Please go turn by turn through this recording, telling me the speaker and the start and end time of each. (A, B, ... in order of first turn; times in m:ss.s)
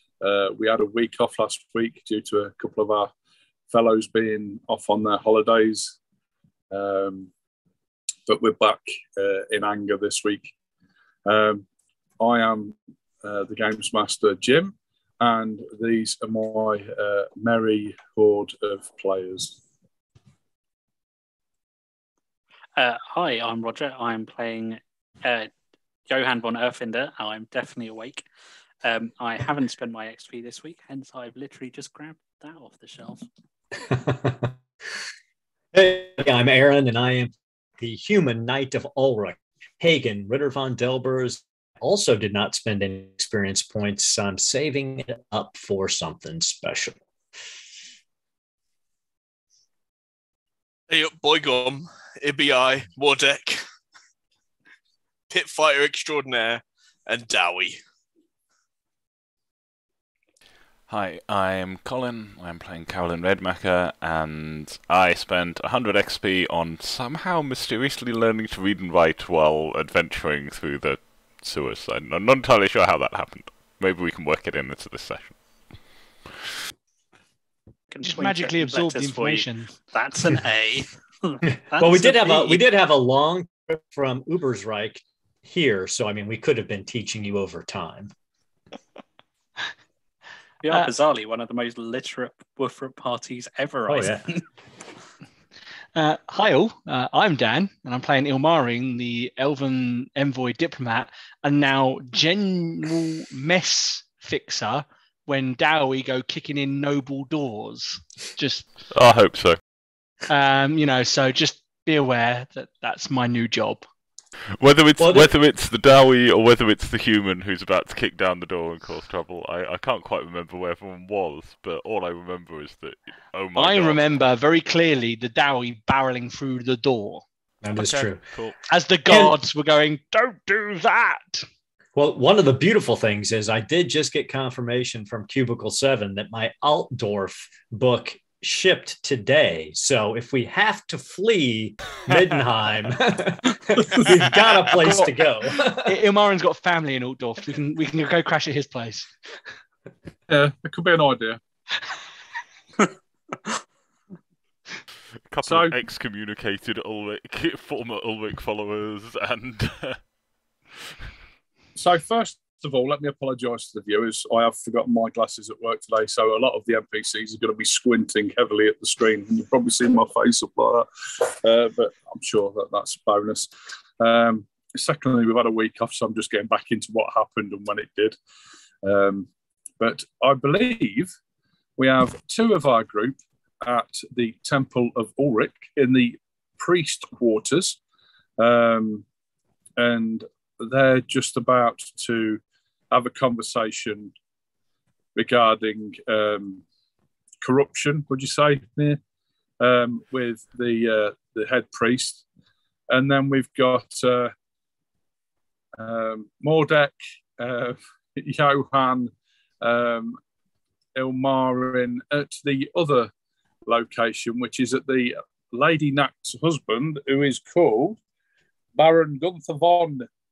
0:00.2-0:03.1 A
0:03.7-0:06.0 A
0:06.7-0:07.3 A
0:08.3-0:10.5 A
0:11.2-0:11.6 A
0:12.2-0:19.6 A
0:22.8-0:25.5 B
0:26.1-0:28.2 B
0:28.8-0:33.2 B
0:33.8-0:34.5 C
0:35.7-0:47.0 C
0:50.9-0:53.6 D
0:55.3-0:57.8 D
1:00.9-1:15.4 E
1:17.9-1:22.6 B
1:18.0-1:19.7 F
1:21.8-1:28.1 C
1:30.6-1:34.2 B
1:33.8-1:34.3 C
1:35.9-1:48.7 F
1:48.9-1:49.6 E
1:50.3-1:53.8 F
1:54.6-2:04.0 E
1:55.0-1:55.3 C
2:03.6-2:07.2 F
2:07.6-2:08.2 C
2:07.8-2:08.5 E
2:08.7-2:11.4 F
2:09.1-2:09.3 C
2:12.0-2:26.0 C
2:25.7-2:29.1 F
2:30.3-2:31.4 A
2:35.3-2:40.0 E
2:35.4-2:35.8 A
2:41.8-2:58.2 A
2:58.8-2:59.3 A
2:59.8-3:01.1 A
3:01.8-3:07.8 A
3:08.4-3:09.0 A
3:09.8-3:14.1 A
3:15.1-3:16.6 A
3:17.4-3:19.0 A
3:19.6-3:22.2 A
3:22.9-3:24.3 A
3:25.8-3:30.2 A
3:31.0-3:33.1 A
3:33.6-3:38.0 A
3:38.8-3:40.1 A